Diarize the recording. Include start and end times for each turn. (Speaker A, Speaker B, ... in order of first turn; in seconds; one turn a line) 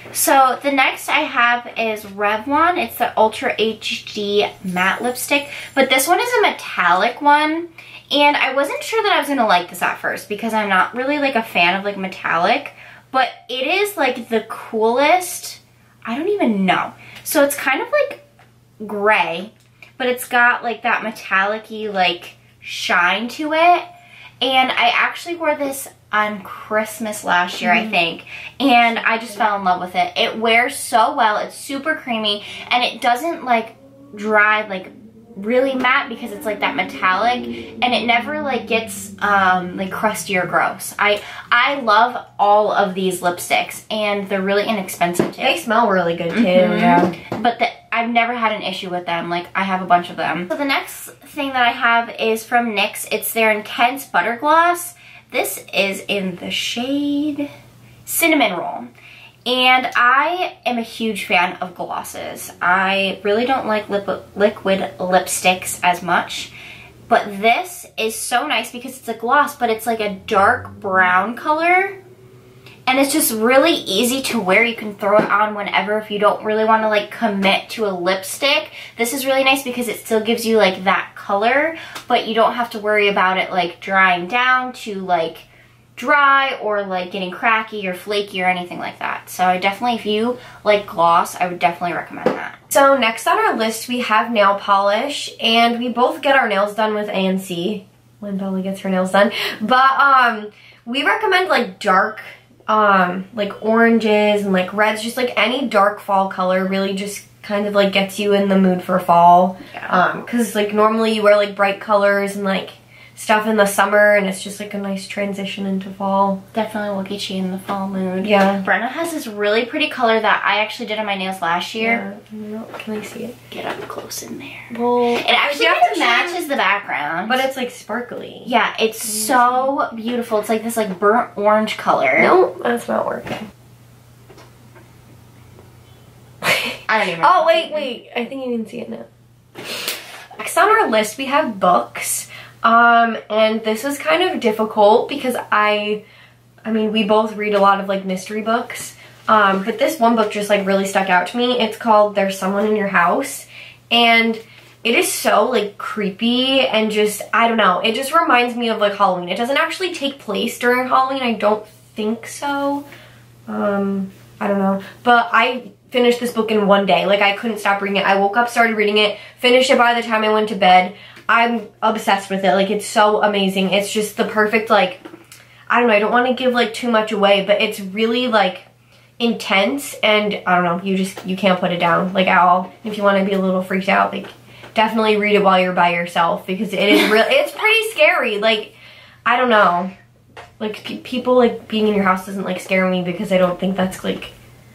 Speaker A: 0.1-18.2
Speaker A: 18.8-23.9
Speaker A: 24.4-45.6
Speaker B: 27.6-28.0
Speaker B: 29.2-29.6
Speaker B: 45.4-47.1
Speaker A: 46.3-57.5
Speaker A: 58.0-58.9
Speaker A: 59.5-66.5
Speaker A: 67.1-72.0
Speaker A: 72.8-92.6
Speaker B: 92.7-116.4
Speaker A: 109.7-110.0
Speaker A: 116.5-122.0
Speaker B: 118.2-118.7
Speaker B: 121.8-123.3
Speaker A: 123.5-127.4
Speaker B: 124.7-126.4
Speaker B: 127.3-128.5
Speaker A: 128.4-132.3
Speaker B: 129.1-129.7
Speaker B: 132.2-133.5
Speaker B: 136.4-139.1
Speaker A: 136.9-137.9
Speaker B: 140.3-146.0
Speaker B: 146.6-162.8
Speaker B: 163.5-175.0
Speaker B: 175.7-178.7
Speaker B: 179.2-188.7
Speaker B: 189.2-189.9
Speaker B: 190.6-194.3